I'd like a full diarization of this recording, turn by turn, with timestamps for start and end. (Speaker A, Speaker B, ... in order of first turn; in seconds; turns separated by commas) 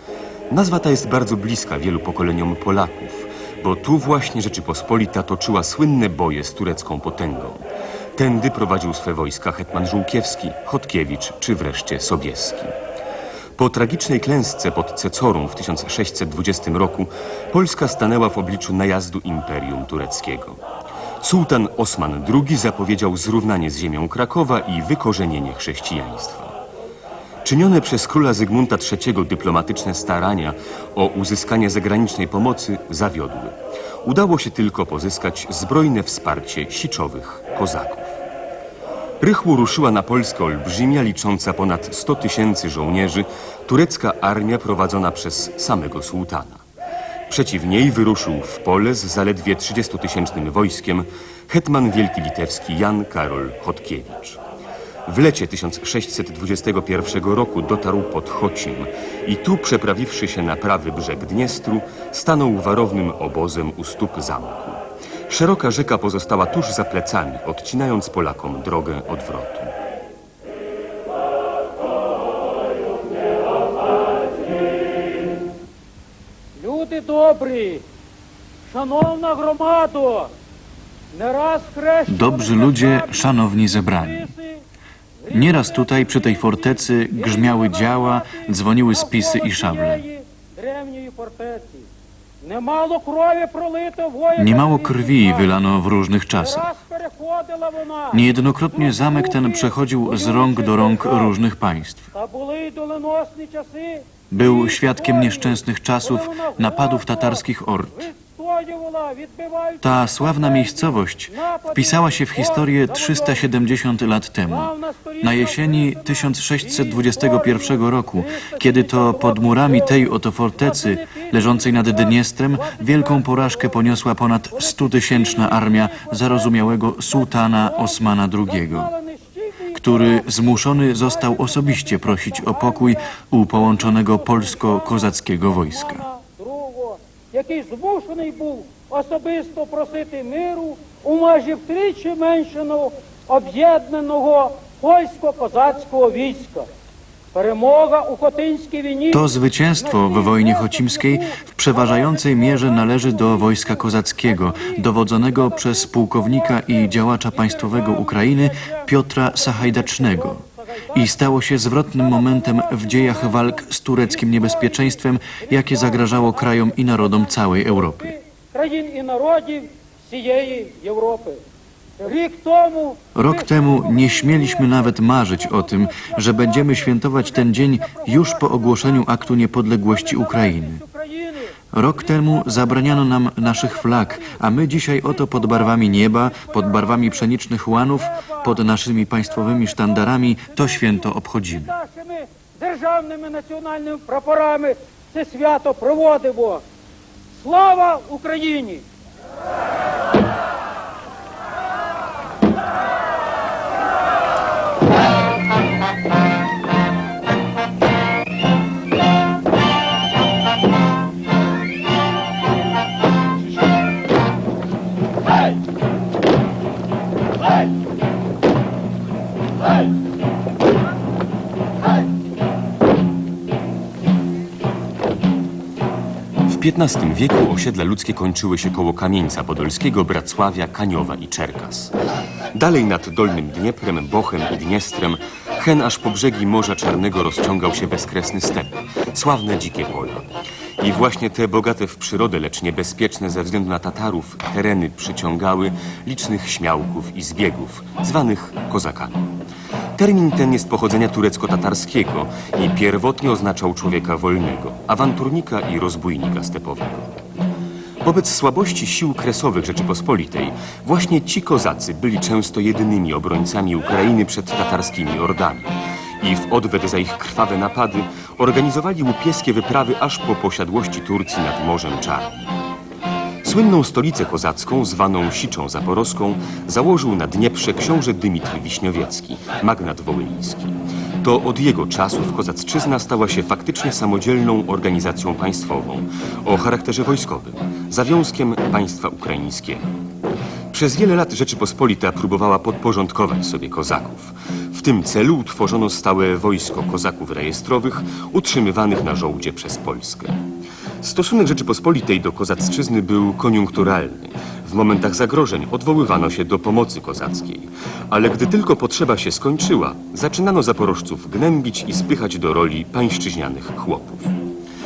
Speaker A: 0.5-7.6, Speaker A: 8.2-12.7, Speaker A: 13.6-20.6, Speaker A: 21.2-26.6, Speaker A: 27.4-38.2, Speaker A: 39.2-46.6, Speaker A: 47.3-54.4, Speaker A: 55.1-69.7, Speaker B: 76.6-77.8, Speaker B: 78.7-80.3, Speaker B: 81.1-84.6, Speaker C: 82.1-84.3, Speaker B: 85.2-91.9, Speaker C: 85.3-90.0, Speaker B: 92.4-95.5, Speaker C: 94.3-96.7, Speaker B: 96.3-101.3, Speaker C: 98.1-102.1, Speaker B: 102.1-113.5, Speaker C: 104.3-108.1, Speaker C: 109.8-128.9, Speaker B: 114.5-146.7, Speaker C: 129.7-136.0, Speaker B: 147.3-171.4, Speaker C: 149.1-160.4, Speaker C: 160.9-168.2, Speaker B: 172.0-187.3, Speaker C: 173.2-180.8, Speaker C: 181.7-191.7, Speaker B: 187.9-196.6, Speaker B: 197.4-198.8, Speaker A: 226.5-231.9, Speaker A: 232.6-249.3, Speaker A: 249.9-257.2, Speaker A: 258.0-272.5, Speaker A: 273.4-289.9, Speaker A: 290.7-300.4, Speaker A: 301.0-314.3